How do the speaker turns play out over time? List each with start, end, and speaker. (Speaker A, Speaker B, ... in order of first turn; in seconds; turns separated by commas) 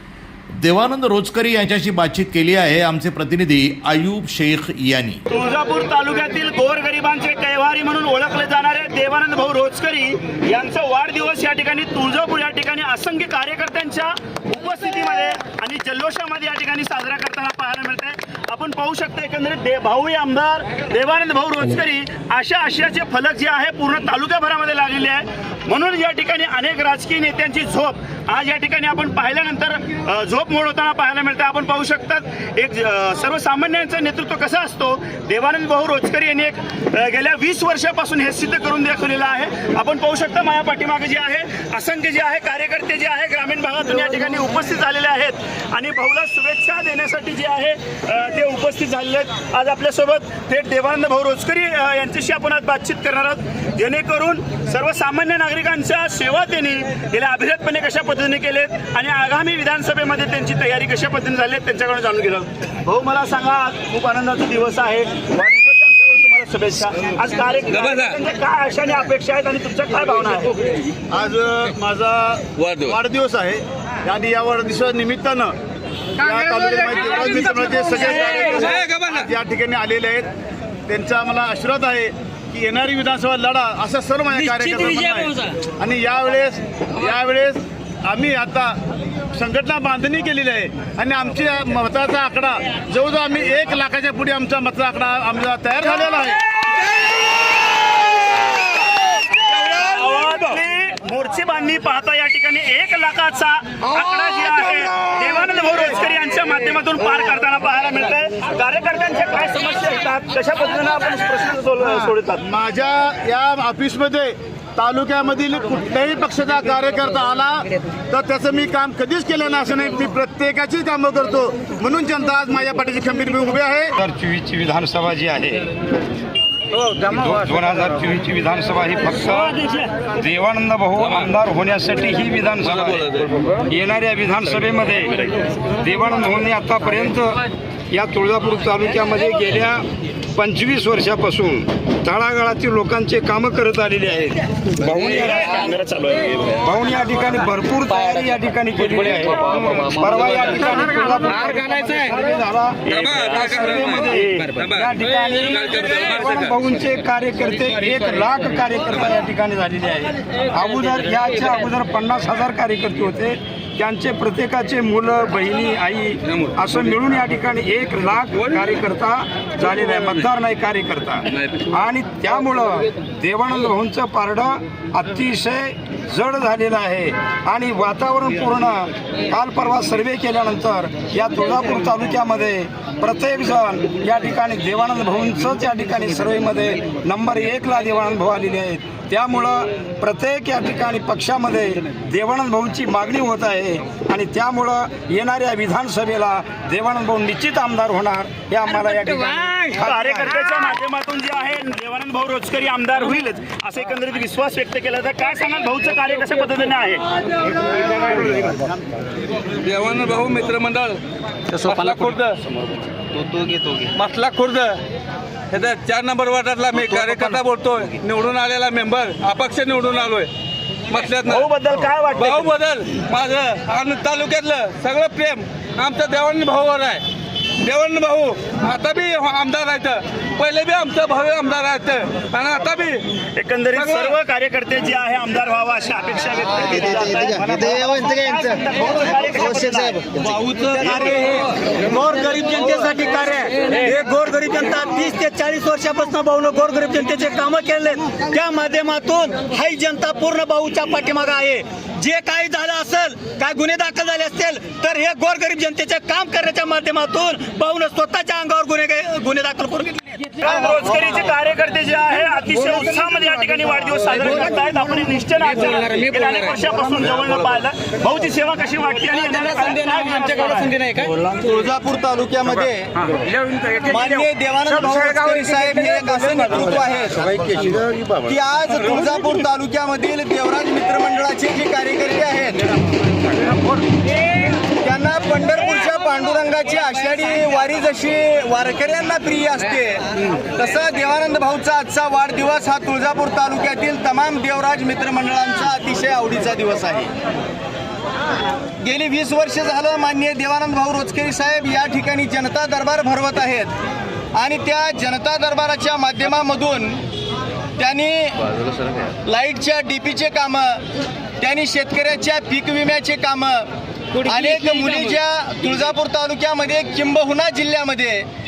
Speaker A: 0.6-5.2, Speaker B: 5.3-70.6, Speaker C: 67.7-68.1, Speaker D: 71.1-75.5, Speaker C: 72.6-72.9, Speaker D: 76.2-80.3, Speaker C: 78.8-79.1, Speaker D: 80.9-88.8, Speaker D: 89.3-96.4, Speaker B: 99.5-112.4, Speaker D: 112.4-123.9, Speaker E: 124.0-125.7, Speaker E: 126.8-145.5, Speaker B: 144.9-146.6, Speaker E: 146.6-200.4, Speaker C: 152.9-154.0, Speaker B: 153.6-154.5, Speaker C: 154.6-154.9, Speaker C: 155.6-156.5, Speaker B: 199.5-207.1, Speaker C: 209.6-212.4, Speaker F: 213.3-213.8, Speaker C: 213.9-214.8, Speaker C: 215.5-220.3, Speaker C: 220.9-221.4, Speaker B: 221.1-222.7, Speaker C: 222.2-227.1, Speaker C: 227.6-233.1, Speaker B: 233.4-241.2, Speaker C: 233.8-234.1, Speaker F: 240.4-260.3, Speaker B: 260.4-271.1, Speaker G: 271.3-273.0, Speaker G: 273.7-277.5, Speaker G: 278.1-282.7, Speaker G: 284.8-297.1, Speaker G: 298.8-303.7, Speaker G: 304.3-307.0, Speaker G: 307.8-308.5, Speaker G: 309.2-310.9, Speaker G: 311.4-318.3